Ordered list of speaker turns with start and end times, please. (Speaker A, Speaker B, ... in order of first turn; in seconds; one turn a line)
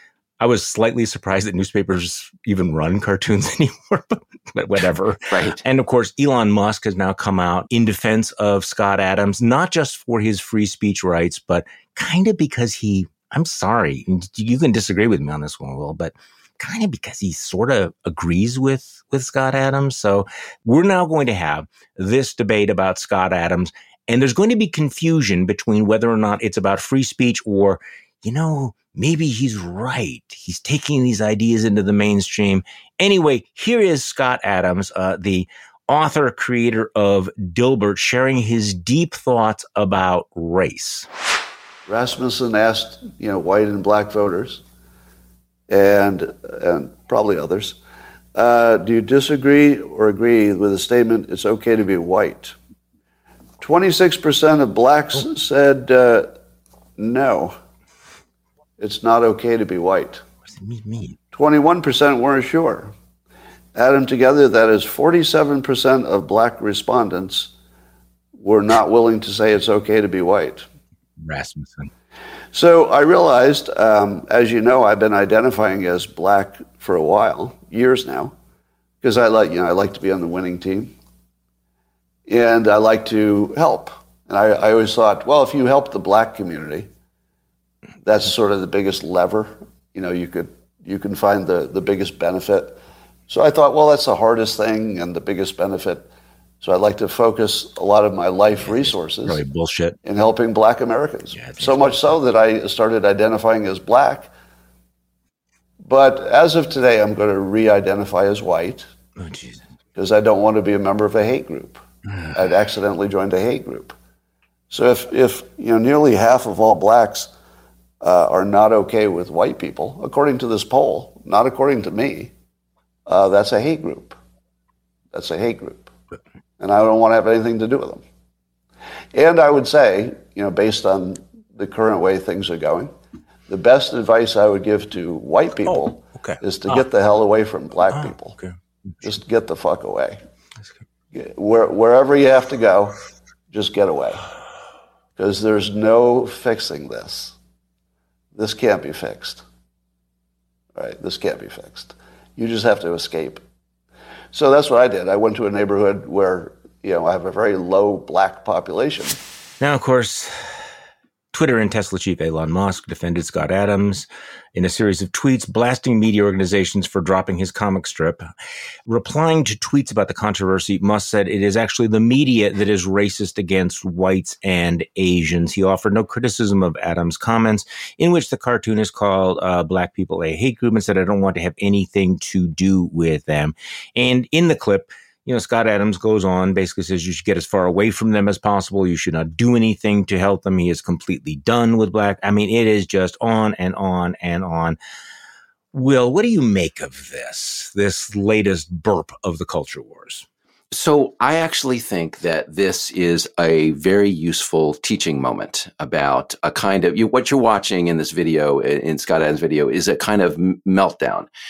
Speaker A: 0.4-41.1
Speaker B: 5.3-5.6
Speaker C: 41.9-44.6
Speaker C: 45.7-47.8
Speaker C: 48.3-52.5
Speaker C: 53.6-56.3
Speaker C: 57.0-57.5
Speaker C: 58.8-60.2
Speaker A: 60.5-61.2
Speaker C: 61.3-62.9
Speaker C: 63.7-67.5
Speaker C: 68.3-70.7
Speaker A: 71.2-71.9
Speaker C: 72.5-78.3
Speaker C: 79.0-80.9
Speaker C: 82.3-86.9
Speaker C: 88.0-96.1
Speaker C: 96.6-99.4
Speaker A: 98.6-100.0
Speaker C: 100.0-104.3
Speaker A: 101.3-102.1
Speaker C: 105.8-108.9
Speaker A: 109.2-109.6
Speaker C: 110.0-111.8
Speaker C: 112.3-114.0
Speaker C: 114.7-117.3
Speaker C: 118.0-122.3
Speaker C: 123.1-124.2
Speaker C: 125.1-125.9
Speaker C: 126.6-128.0
Speaker C: 129.1-132.9
Speaker C: 133.5-138.3
Speaker A: 135.6-136.8
Speaker A: 137.9-138.5
Speaker C: 139.0-140.2
Speaker C: 141.1-142.9
Speaker C: 143.5-144.2
Speaker C: 145.2-147.3
Speaker C: 148.3-149.4
Speaker C: 150.7-153.4
Speaker C: 154.3-159.2
Speaker A: 159.6-160.3
Speaker A: 161.3-168.2
Speaker A: 168.9-194.8
Speaker A: 195.7-200.2
Speaker B: 200.7-211.3